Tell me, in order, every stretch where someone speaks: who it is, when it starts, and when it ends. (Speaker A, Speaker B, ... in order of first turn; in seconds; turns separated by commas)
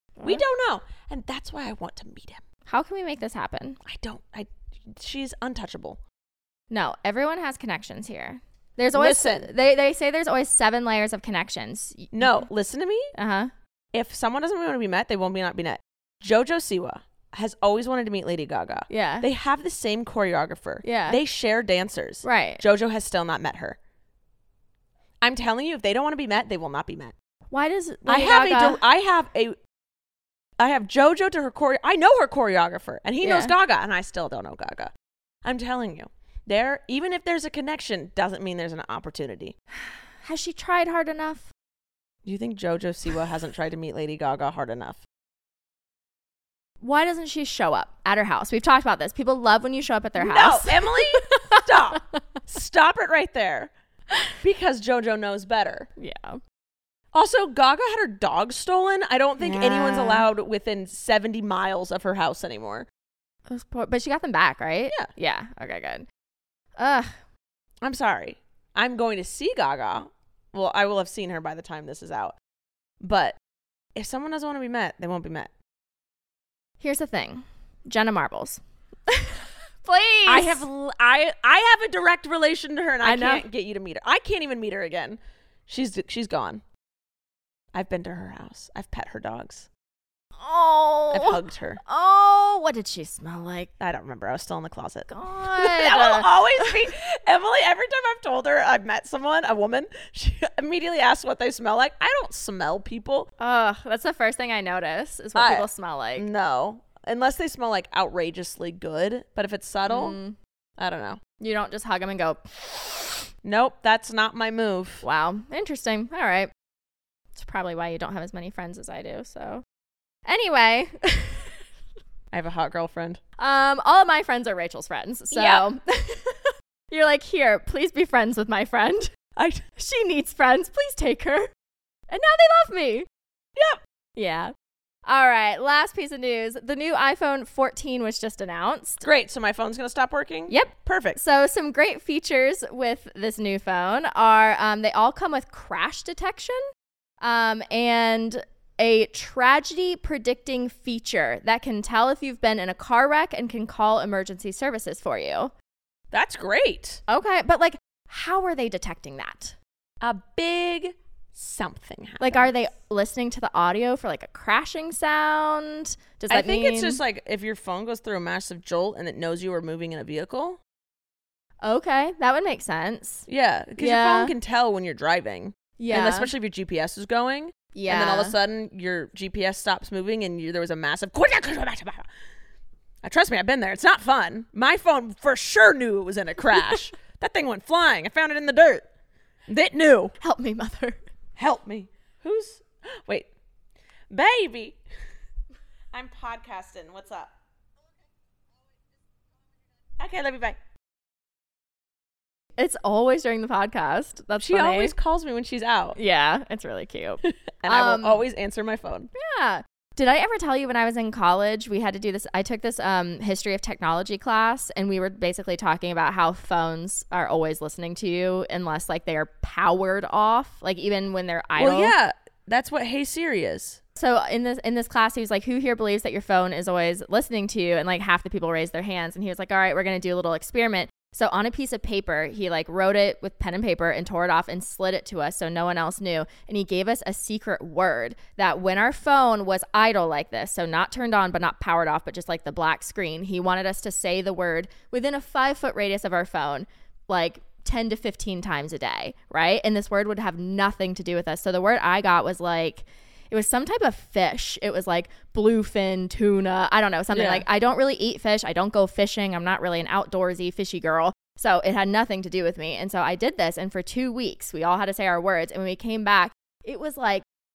Speaker A: 0.2-0.4, Speaker B: 0.2-2.4, Speaker A: 2.7-3.8, Speaker B: 3.9-6.0, Speaker A: 6.7-12.5, Speaker B: 8.9-9.5, Speaker B: 12.2-13.1, Speaker A: 13.2-13.5, Speaker B: 13.9-23.8, Speaker A: 18.9-19.3, Speaker A: 20.8-21.2, Speaker A: 22.2-22.6, Speaker B: 25.2-27.1, Speaker A: 27.5-28.8, Speaker B: 28.1-29.6, Speaker B: 30.6-34.9, Speaker A: 33.2-33.5, Speaker B: 35.5-39.5, Speaker A: 39.8-41.5, Speaker B: 42.2-45.0, Speaker A: 46.8-51.6, Speaker B: 50.2-53.7, Speaker B: 54.4-55.9, Speaker A: 56.0-56.4, Speaker B: 57.1-62.9, Speaker A: 59.4-60.3, Speaker A: 63.5-66.1, Speaker A: 66.8-67.2, Speaker B: 67.8-72.3, Speaker B: 73.0-73.4, Speaker B: 74.0-75.5, Speaker A: 76.8-80.7, Speaker B: 80.3-86.6, Speaker A: 83.0-83.5, Speaker B: 87.7-89.7, Speaker A: 90.4-93.7, Speaker B: 91.1-91.8, Speaker B: 93.8-103.3, Speaker A: 95.1-96.7, Speaker A: 103.4-106.3, Speaker B: 105.3-110.2, Speaker A: 109.9-110.4, Speaker B: 110.8-111.2, Speaker A: 111.4-113.2, Speaker B: 113.4-115.0, Speaker A: 115.0-116.5, Speaker A: 117.3-119.6, Speaker A: 120.3-121.5, Speaker B: 122.3-123.2, Speaker A: 123.4-131.5, Speaker B: 125.3-125.7, Speaker A: 132.1-133.1, Speaker A: 134.2-134.5, Speaker A: 135.1-139.0, Speaker B: 139.0-141.2, Speaker A: 140.5-146.6, Speaker A: 147.2-155.5, Speaker B: 156.1-157.0, Speaker A: 157.1-159.6, Speaker B: 160.0-162.5, Speaker A: 162.2-167.0, Speaker B: 166.3-170.6, Speaker A: 171.6-173.3, Speaker B: 173.3-182.1, Speaker A: 173.8-174.3, Speaker A: 175.8-176.3, Speaker A: 177.7-178.3, Speaker B: 183.0-188.9, Speaker B: 189.5-190.1, Speaker A: 190.2-191.0, Speaker B: 191.4-193.3, Speaker B: 194.1-194.8, Speaker B: 195.9-197.3, Speaker B: 200.0-200.6, Speaker A: 202.6-204.9, Speaker B: 204.4-206.0, Speaker A: 206.0-208.2, Speaker B: 207.3-209.1, Speaker A: 209.2-221.9, Speaker B: 221.6-223.8, Speaker A: 224.0-267.2, Speaker B: 257.1-257.4